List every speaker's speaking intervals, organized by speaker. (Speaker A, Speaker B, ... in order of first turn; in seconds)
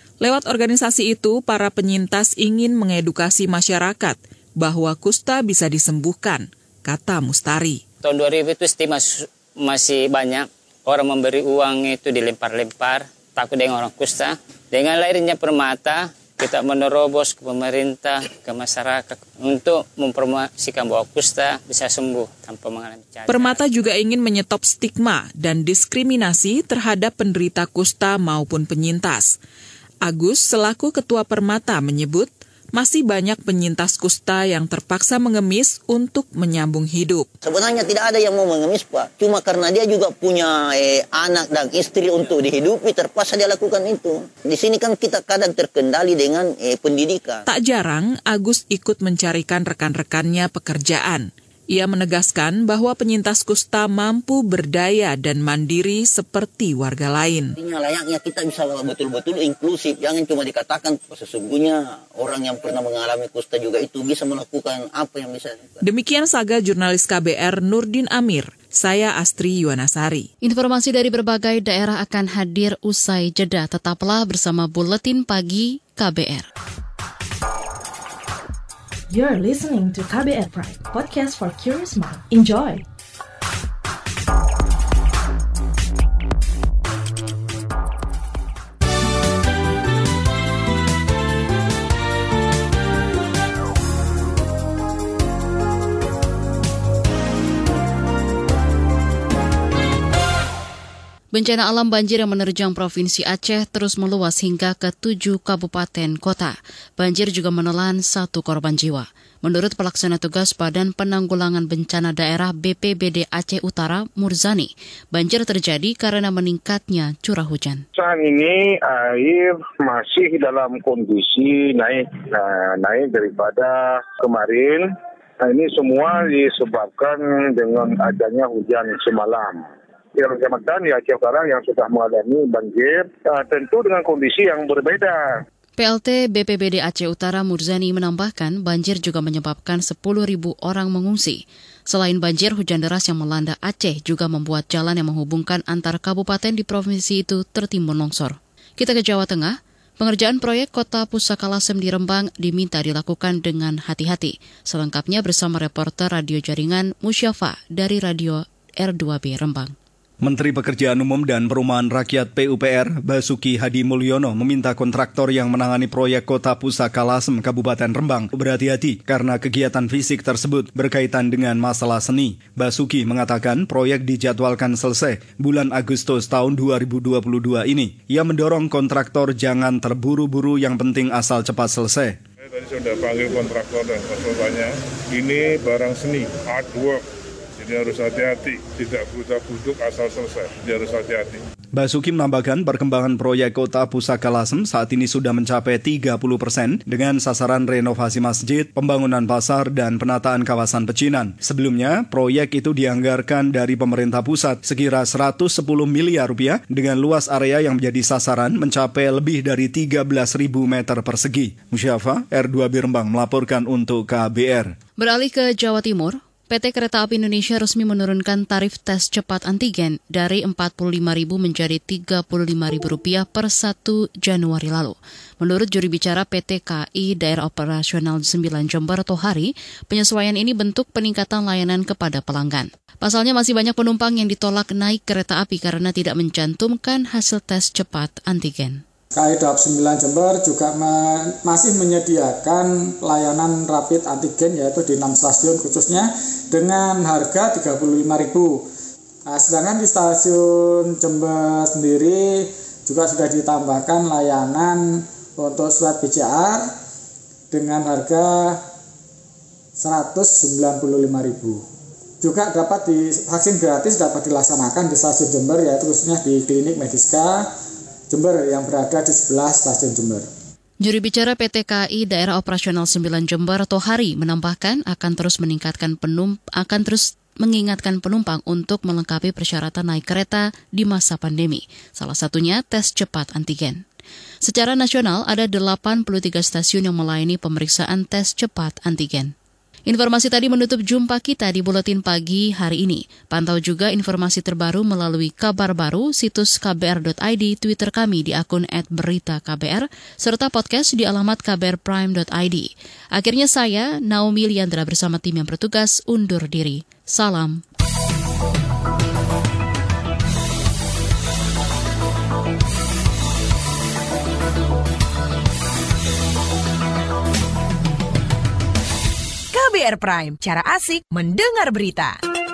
Speaker A: 0.2-7.8, 23.3-29.4, 30.0-37.3, 47.4-57.5, 65.8-70.3
Speaker B: 8.0-23.6
Speaker C: 37.4-47.4, 57.6-65.8
Speaker D: 70.4-76.5, 101.3-117.8, 135.8-159.7, 215.0-238.8, 270.8-283.8, 284.4-289.3, 289.9-307.6
Speaker E: 79.1-82.8
Speaker F: 118.0-124.9, 125.4-129.6, 130.2-135.4
Speaker G: 160.2-182.2, 191.7-214.7
Speaker H: 182.4-187.0, 187.6-191.4
Speaker I: 239.2-248.6, 249.3-256.7, 257.5-258.6, 259.8-261.6, 262.2-267.5, 268.1-270.3
Speaker J: 319.5-322.2